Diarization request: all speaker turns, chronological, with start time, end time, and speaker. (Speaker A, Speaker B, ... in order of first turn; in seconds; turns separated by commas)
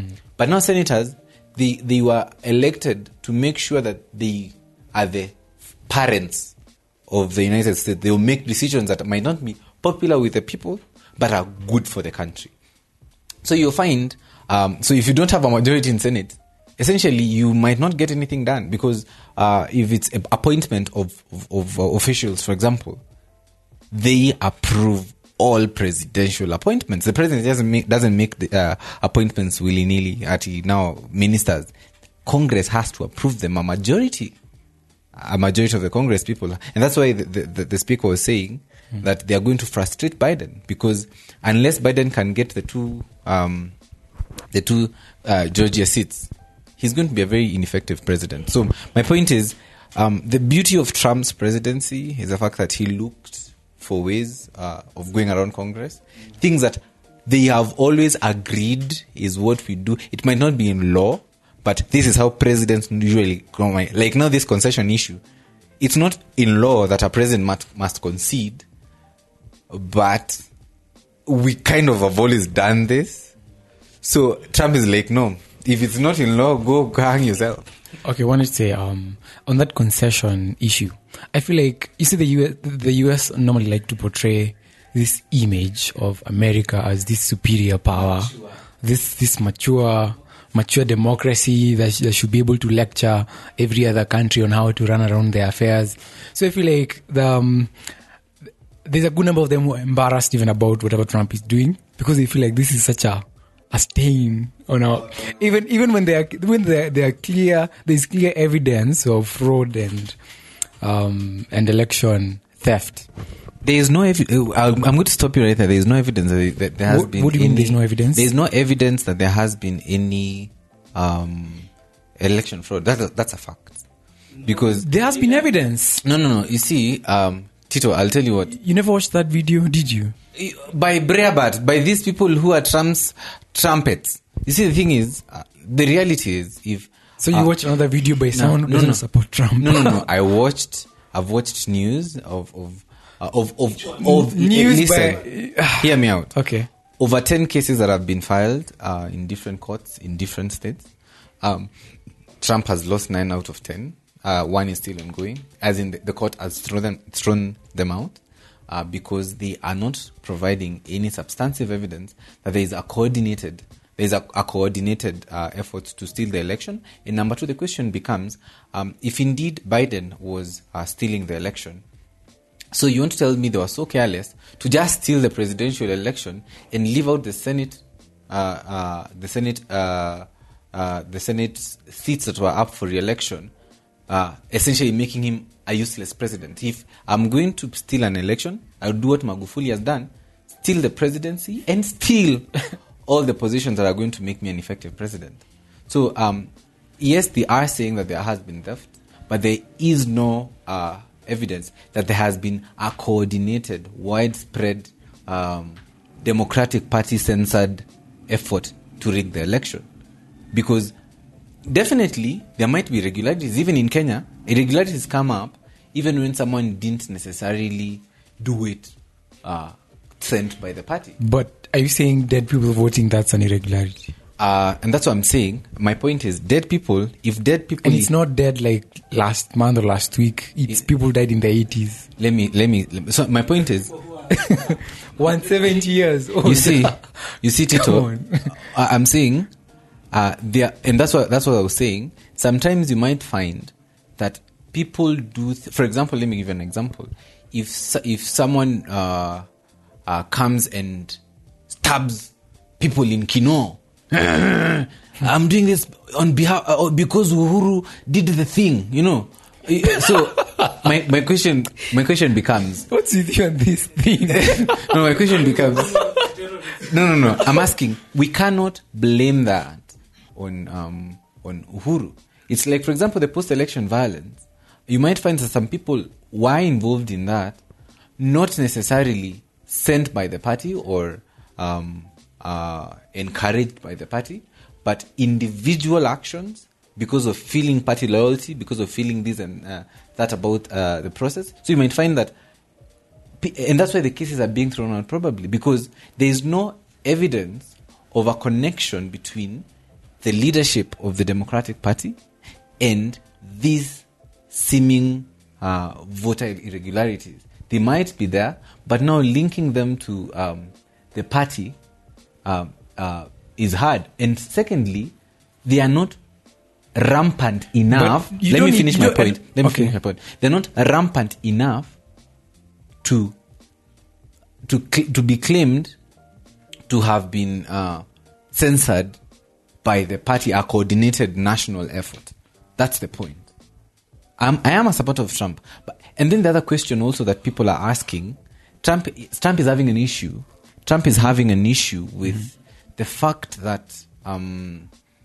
Speaker A: 0.4-5.3, Speaker A: 5.9-6.5, Speaker A: 7.1-12.5, Speaker A: 13.4-23.0, Speaker A: 23.9-31.7, Speaker A: 32.2-34.4, Speaker A: 35.2-43.7, Speaker A: 44.5-65.2, Speaker A: 65.8-68.7, Speaker A: 69.7-70.4, Speaker A: 71.3-73.3, Speaker A: 74.0-77.7, Speaker B: 78.0-97.7, Speaker B: 98.8-110.2, Speaker B: 110.8-113.1, Speaker A: 113.6-121.7, Speaker B: 116.9-118.3, Speaker A: 122.2-123.8, Speaker A: 124.4-124.9, Speaker B: 124.7-126.0, Speaker A: 126.0-128.5, Speaker B: 128.5-130.2, Speaker A: 130.4-137.5, Speaker B: 137.2-140.0, Speaker A: 138.3-139.0, Speaker A: 139.6-145.2, Speaker B: 144.0-146.7, Speaker A: 145.8-146.3, Speaker A: 147.0-150.9, Speaker A: 151.4-151.7, Speaker A: 152.4-171.8, Speaker A: 172.7-183.5, Speaker A: 184.1-190.1, Speaker A: 190.6-209.9, Speaker A: 210.5-210.9, Speaker A: 211.7-221.2, Speaker B: 221.2-224.1, Speaker A: 224.4-228.1, Speaker B: 227.8-232.1, Speaker A: 232.2-233.9, Speaker B: 234.3-237.1, Speaker A: 236.4-239.5, Speaker B: 237.7-238.5, Speaker A: 240.1-249.5, Speaker A: 250.1-251.2, Speaker A: 251.7-262.9, Speaker B: 260.0-260.7, Speaker B: 262.9-266.4, Speaker A: 264.3-266.2, Speaker A: 266.7-277.6, Speaker B: 267.4-267.6, Speaker A: 278.2-292.3, Speaker A: 293.4-299.6, Speaker A: 300.2-302.2, Speaker A: 302.8-311.8, Speaker A: 312.4-315.1, Speaker A: 315.6-316.2, Speaker A: 316.9-321.9, Speaker B: 317.9-319.9, Speaker A: 323.0-323.4, Speaker A: 324.7-325.9, Speaker A: 326.9-329.2, Speaker A: 329.8-333.5, Speaker A: 334.4-344.9